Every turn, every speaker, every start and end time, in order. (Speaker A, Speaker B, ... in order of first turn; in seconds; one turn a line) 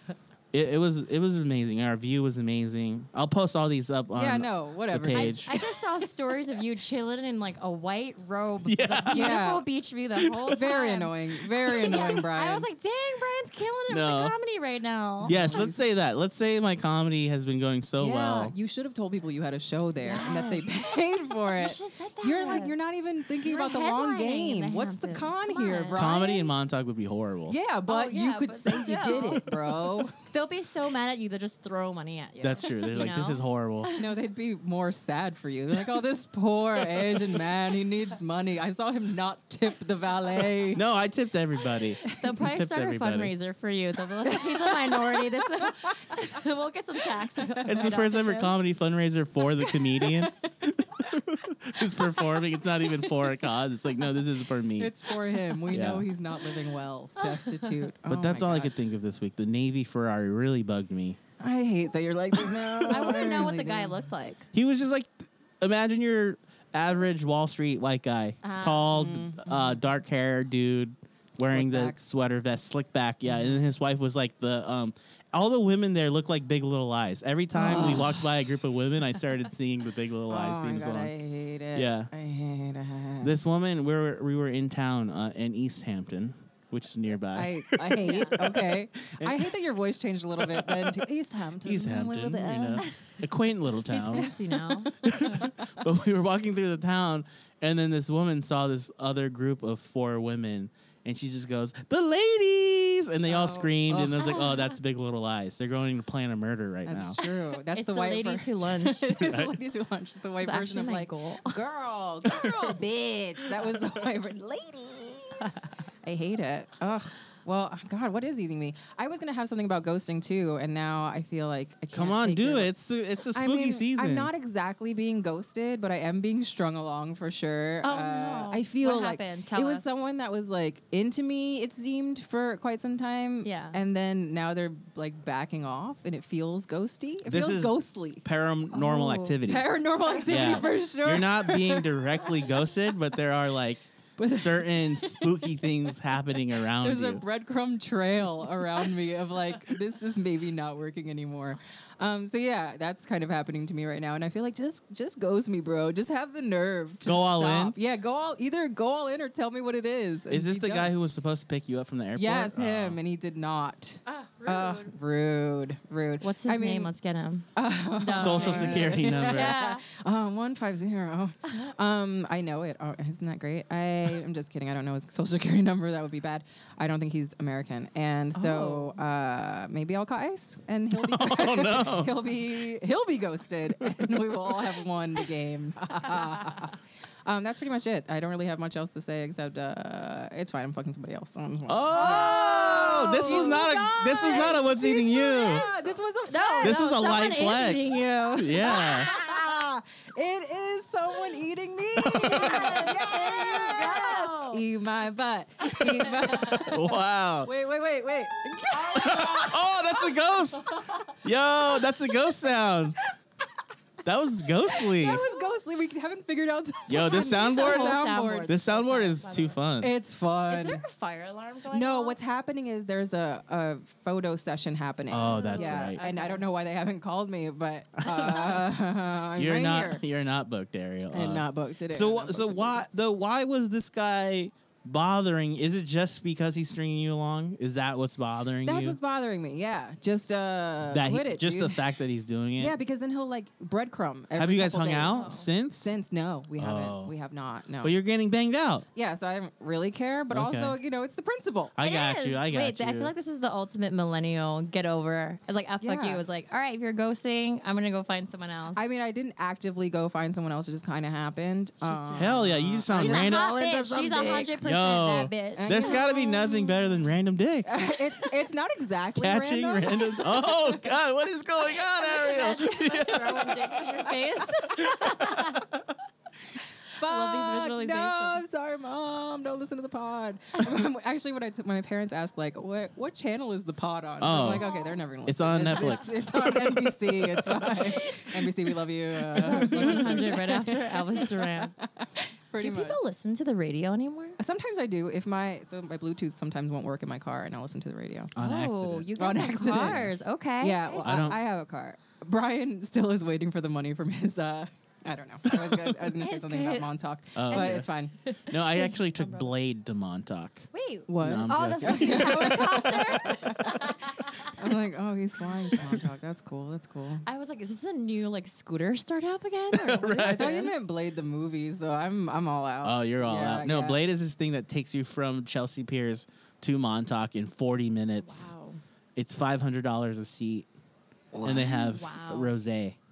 Speaker A: 0.5-5.6
Speaker B: 4.1-5.5
Speaker C: 5.1-15.7
Speaker A: 8.6-9.4
Speaker B: 9.1-9.6
Speaker A: 10.2-10.6
Speaker B: 10.5-12.7
Speaker A: 11.6-12.0
Speaker A: 13.9-14.3
Speaker B: 15.2-15.8
Speaker A: 15.2-18.5
Speaker B: 18.0-26.5
Speaker C: 20.0-22.7
Speaker C: 23.4-26.1
Speaker A: 25.9-27.6
Speaker B: 27.5-30.1
Speaker C: 27.9-34.1
Speaker A: 32.4-33.9
Speaker B: 34.0-40.8
Speaker A: 40.7-43.3
Speaker C: 42.0-48.5
Speaker B: 44.2-46.3
Speaker B: 47.1-47.8
Speaker A: 47.6-54.9
Speaker B: 49.6-50.3
Speaker B: 51.8-52.4
Speaker B: 54.8-58.7
Speaker A: 55.7-56.1
Speaker C: 57.2-57.9
Speaker A: 58.1-61.2
Speaker B: 61.4-64.0
Speaker C: 62.9-64.5
Speaker A: 64.5-81.1
Speaker C: 68.4-69.0
Speaker B: 68.9-69.8
Speaker B: 71.4-72.0
Speaker B: 73.2-73.6
Speaker B: 77.5-78.3
Speaker B: 80.3-83.4
Speaker A: 81.7-82.1
Speaker A: 83.2-89.5
Speaker B: 87.3-92.9
Speaker C: 88.0-88.4
Speaker A: 90.4-91.0
Speaker A: 91.6-94.3
Speaker C: 93.9-95.5
Speaker B: 94.1-95.5
Speaker A: 95.0-107.2
Speaker B: 103.2-104.5
Speaker C: 104.2-104.6
Speaker B: 106.8-122.7
Speaker C: 107.7-109.2
Speaker A: 109.2-109.5
Speaker C: 110.4-111.6
Speaker A: 121.9-124.3
Speaker B: 123.3-138.2
Speaker C: 127.8-130.0
Speaker C: 133.4-133.8
Speaker A: 137.2-139.7
Speaker C: 138.8-139.3
Speaker B: 138.8-142.2
Speaker A: 140.2-147.2
Speaker B: 144.2-145.7
Speaker B: 146.6-160.9
Speaker A: 157.0-157.8
Speaker A: 160.3-163.0
Speaker B: 162.2-166.9
Speaker C: 164.1-164.9
Speaker C: 166.2-167.4
Speaker B: 167.6-196.8
Speaker C: 168.0-169.8
Speaker A: 168.1-169.6
Speaker C: 178.3-179.0
Speaker A: 180.9-182.1
Speaker A: 183.8-184.3
Speaker A: 191.7-195.7
Speaker C: 191.9-199.4
Speaker A: 196.6-199.1
Speaker B: 198.6-209.8
Speaker A: 201.9-203.0
Speaker C: 202.3-204.6
Speaker C: 205.7-206.7
Speaker A: 206.6-207.5
Speaker A: 208.7-213.0
Speaker C: 210.7-211.1
Speaker A: 214.0-215.2
Speaker B: 214.7-218.5
Speaker A: 216.9-219.9
Speaker C: 217.0-219.6
Speaker B: 219.8-220.8
Speaker C: 220.5-222.2
Speaker B: 221.7-230.0
Speaker A: 225.1-226.0
Speaker C: 225.2-226.4
Speaker A: 228.0-228.7
Speaker A: 229.4-239.0
Speaker B: 231.1-232.8
Speaker B: 238.6-241.8
Speaker A: 240.9-242.8
Speaker B: 242.6-247.9
Speaker A: 244.3-245.9
Speaker C: 245.1-245.5
Speaker A: 246.6-247.1
Speaker A: 247.8-248.8
Speaker B: 248.9-251.7
Speaker A: 250.3-250.8
Speaker A: 251.8-253.1
Speaker C: 251.8-258.8
Speaker B: 255.8-256.2
Speaker B: 258.8-264.6
Speaker C: 261.8-266.5
Speaker A: 262.1-263.5
Speaker A: 264.6-267.7
Speaker B: 265.6-266.6
Speaker B: 267.6-270.7
Speaker A: 269.2-273.9
Speaker C: 271.7-275.7
Speaker A: 274.8-275.6
Speaker B: 276.9-293.0
Speaker C: 277.0-278.4
Speaker A: 284.2-284.6
Speaker C: 284.5-285.0
Speaker A: 285.2-287.7
Speaker C: 285.7-286.2
Speaker C: 287.7-288.3
Speaker C: 289.3-291.7
Speaker A: 289.5-290.0
Speaker C: 292.6-294.4
Speaker B: 294.4-298.3
Speaker A: 298.3-299.1
Speaker C: 298.4-301.2
Speaker B: 299.2-300.1
Speaker A: 299.7-300.1
Speaker B: 300.6-308.1
Speaker A: 301.0-301.4
Speaker A: 305.5-305.8
Speaker C: 306.2-306.9
Speaker A: 307.3-307.9
Speaker C: 307.5-309.5
Speaker A: 308.4-310.7
Speaker C: 310.7-314.6
Speaker B: 311.1-317.2
Speaker A: 311.2-312.8
Speaker C: 317.2-320.7
Speaker A: 319.7-320.6
Speaker B: 320.1-324.0
Speaker A: 322.8-328.5
Speaker C: 328.2-328.8
Speaker A: 329.1-330.7
Speaker B: 331.3-331.8
Speaker A: 331.4-333.0
Speaker C: 331.6-332.5